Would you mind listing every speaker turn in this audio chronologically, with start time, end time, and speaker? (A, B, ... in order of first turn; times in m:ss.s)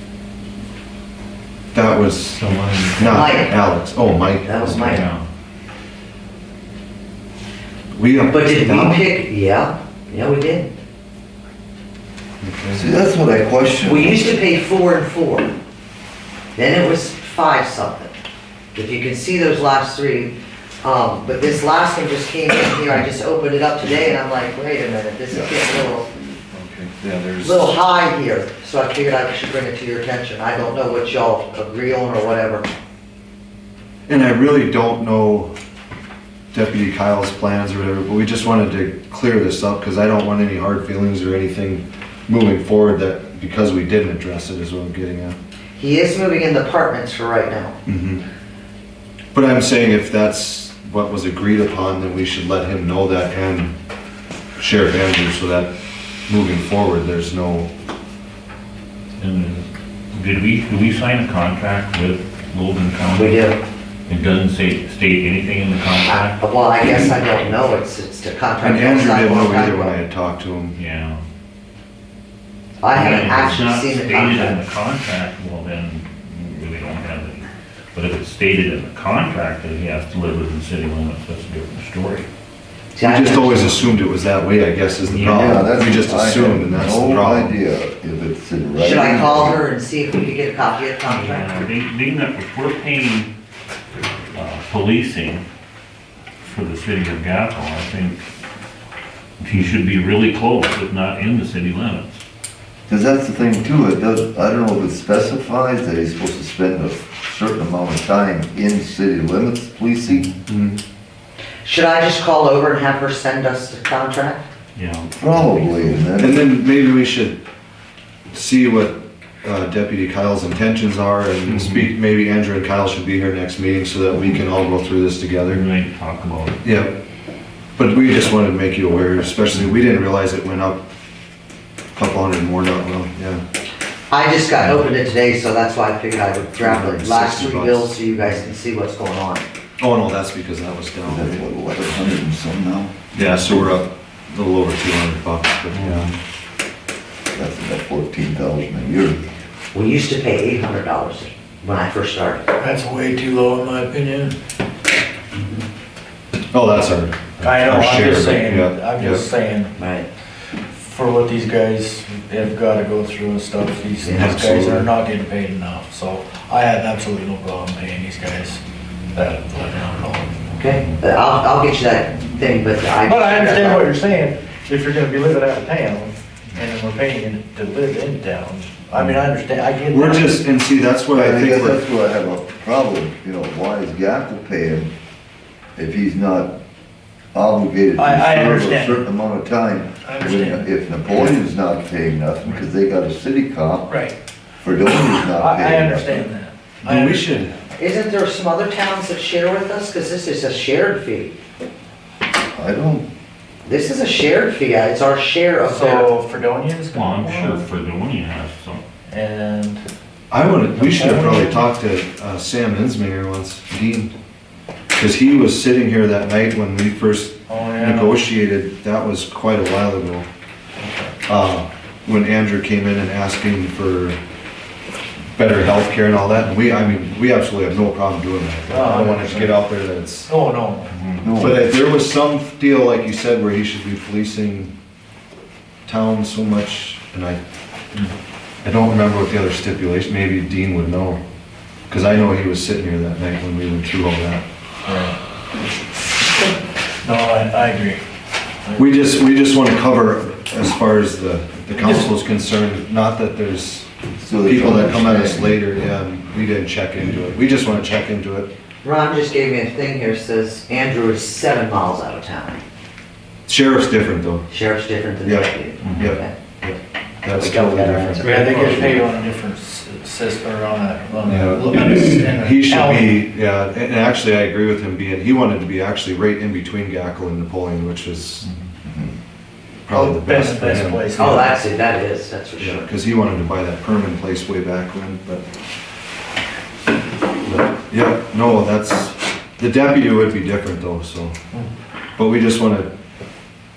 0:01.7-0:02.4 A
0:02.3-0:03.2 B
0:03.0-0:05.0 A
0:03.0-0:03.5 C
0:04.4-0:05.1 C
0:04.6-0:05.3 B
0:07.9-0:09.0 A
0:08.3-0:10.7 C
0:12.4-0:12.8 A
0:12.7-0:14.2 D
0:13.8-0:15.5 C
0:16.6-0:18.1 C
0:18.7-0:26.1 C
0:25.3-0:27.6 D
0:27.4-0:32.7 C
0:34.1-0:35.5 A
0:36.5-0:45.4 A
0:45.8-0:47.8 C
0:47.8-0:48.2 A
0:49.3-0:53.7 A
0:54.6-0:55.7 A
0:56.3-0:57.7 A
0:59.2-1:03.4 B
1:03.0-1:03.6 C
1:04.1-1:06.4 B
1:06.0-1:10.0 C
1:08.6-1:10.8 A
1:10.7-1:11.2 B
1:12.8-1:14.6 C
1:12.9-1:22.3 B
1:22.9-1:24.0 C
1:23.0-1:27.6 A
1:25.0-1:25.7 B
1:25.1-1:29.6 D
1:28.8-1:31.5 C
1:31.0-1:33.3 B
1:34.3-1:35.4 B
1:36.4-1:38.2 B
1:39.4-1:42.2 B
1:42.9-1:50.3 D
1:50.1-1:50.4 B
1:50.4-1:50.8 A
1:51.6-1:54.5 C
1:54.8-1:56.0 B
1:55.1-1:56.5 D
1:56.2-1:57.4 A
1:58.3-2:05.6 A
2:01.5-2:01.9 B
2:05.4-2:06.6 B
2:06.6-2:07.0 A
2:07.8-2:10.8 A
2:11.9-2:13.4 A
2:14.1-2:19.4 C
2:16.6-2:17.9 A
2:19.8-2:21.4 A
2:21.0-2:23.7 D
2:23.1-2:26.1 A
2:25.7-2:26.1 B
2:27.3-2:29.2 D
2:29.7-2:32.5 C
2:32.6-2:34.4 E
2:36.5-2:39.2 A
2:37.4-2:39.7 E
2:39.8-2:40.1 C
2:40.7-2:50.4 E
2:44.0-2:44.9 A
2:50.5-2:53.9 C
2:53.0-3:00.4 E
2:58.9-2:59.2 A
2:59.9-3:01.8 A
3:01.1-3:04.9 D
3:05.8-3:06.5 D
3:07.3-3:14.0 D
3:07.9-3:09.1 E
3:10.0-3:10.7 E
3:13.9-3:14.1 E
3:14.6-3:16.2 D
3:15.0-3:17.6 E
3:16.8-3:17.5 A
3:17.8-3:21.4 C
3:22.5-3:23.0 D
3:23.6-3:26.1 C
3:25.7-3:27.6 E
3:26.9-3:28.8 B
3:29.1-3:29.8 E
3:30.3-3:34.1 A
3:30.7-3:31.6 E
3:35.0-3:40.3 A
3:37.5-3:38.2 E
3:40.8-3:41.1 E
3:41.2-3:44.2 A
3:45.3-3:50.3 A
3:48.7-3:49.5 E
3:50.2-3:50.9 E
3:50.9-3:51.3 B
3:51.2-3:51.6 D
3:51.4-3:54.7 A
3:55.8-3:57.4 A
3:58.6-4:01.2 A
4:01.9-4:04.4 A
4:04.8-4:05.2 E
4:07.0-4:08.0 E
4:08.8-4:13.9 A
4:14.2-4:15.7 D
4:14.4-4:18.5 A
4:18.8-4:22.6 C
4:23.5-4:24.4 A
4:24.5-4:26.3 C
4:25.2-4:29.0 A
4:25.8-4:26.1 B
4:27.3-4:29.0 C
4:28.2-4:33.1 E
4:31.2-4:38.4 A
4:38.4-4:38.7 B
4:38.8-4:39.1 D
4:39.9-4:41.5 A
4:39.9-4:41.5 E
4:41.1-4:42.9 C
4:42.6-4:45.4 A
4:47.9-4:51.3 A
4:52.2-4:52.9 A